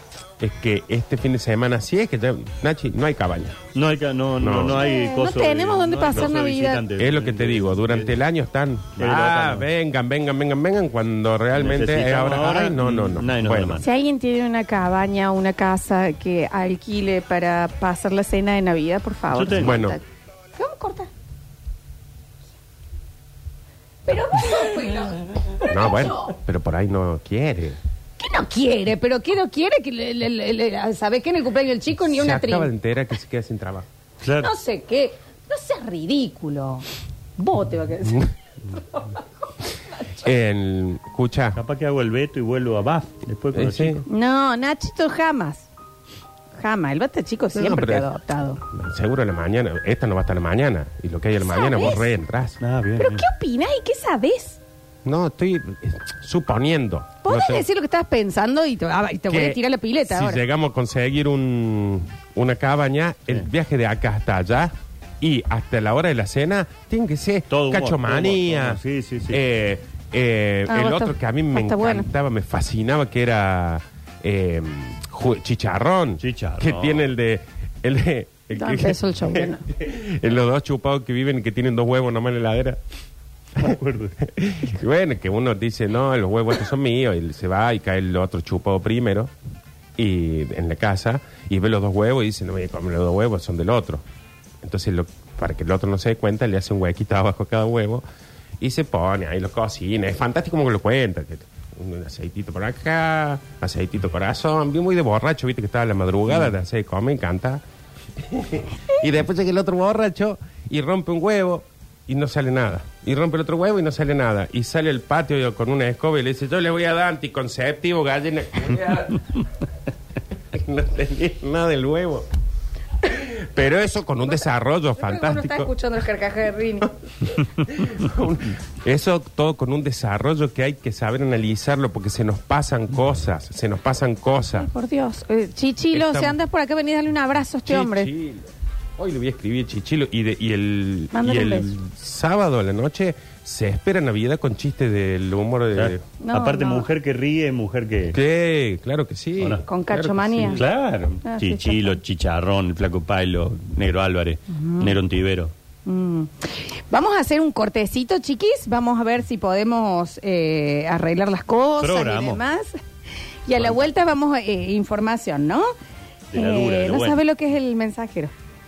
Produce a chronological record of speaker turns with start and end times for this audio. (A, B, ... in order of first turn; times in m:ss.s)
0:00.4-0:03.6 A
0:03.7-0:08.2 B
0:04.4-0:04.8 A
0:04.7-0:06.8 C
0:07.0-0:13.8 A
0:09.0-0:09.7 B
0:11.5-0:13.8 B
0:13.8-0:20.0 C
0:19.3-0:19.8 B
0:19.5-0:20.0 A
0:20.6-0:21.1 C
0:24.1-0:26.3 C
0:25.7-0:27.8 A
0:28.2-0:32.7 C
0:32.1-0:33.9 A
0:34.2-0:34.5 B
0:34.4-0:36.8 C
0:37.4-0:38.3 C
0:38.0-0:38.3 A
0:40.1-0:41.6 A
0:41.5-0:44.0 B
0:43.5-0:44.0 A
0:44.1-0:45.7 C
0:46.6-0:48.6 C
0:47.5-0:48.1 A
0:48.7-0:52.6 A
0:51.4-0:52.1 C
0:52.6-0:53.2 B
0:53.0-0:54.6 C
0:55.0-0:57.6 A
0:57.2-1:00.4 C
0:59.3-1:22.8 A
1:07.5-1:09.4 B
1:10.7-1:12.1 C
1:16.2-1:17.1 B
1:18.5-1:19.6 C
1:23.6-1:24.2 B
1:23.6-1:29.3 A
1:30.0-1:34.0 A
1:34.6-1:38.0 A
1:38.6-1:47.6 A
1:48.2-1:59.2 A
2:00.5-2:02.3 A
2:03.0-2:05.7 A
2:04.9-2:06.9 C
2:07.3-2:14.7 A
2:14.6-2:18.1 C
2:15.9-2:16.4 A
2:17.6-2:26.0 A
2:21.1-2:21.8 C
2:25.7-2:28.2 B
2:26.2-2:26.9 C
2:28.1-2:30.6 A
2:29.6-2:30.6 C
2:30.5-2:35.5 B
2:31.2-2:32.0 C
2:34.5-2:35.0 C
2:35.8-2:42.8 C
2:41.8-2:42.4 B
2:43.4-2:45.7 C
2:46.3-2:47.2 B
2:46.3-2:48.3 C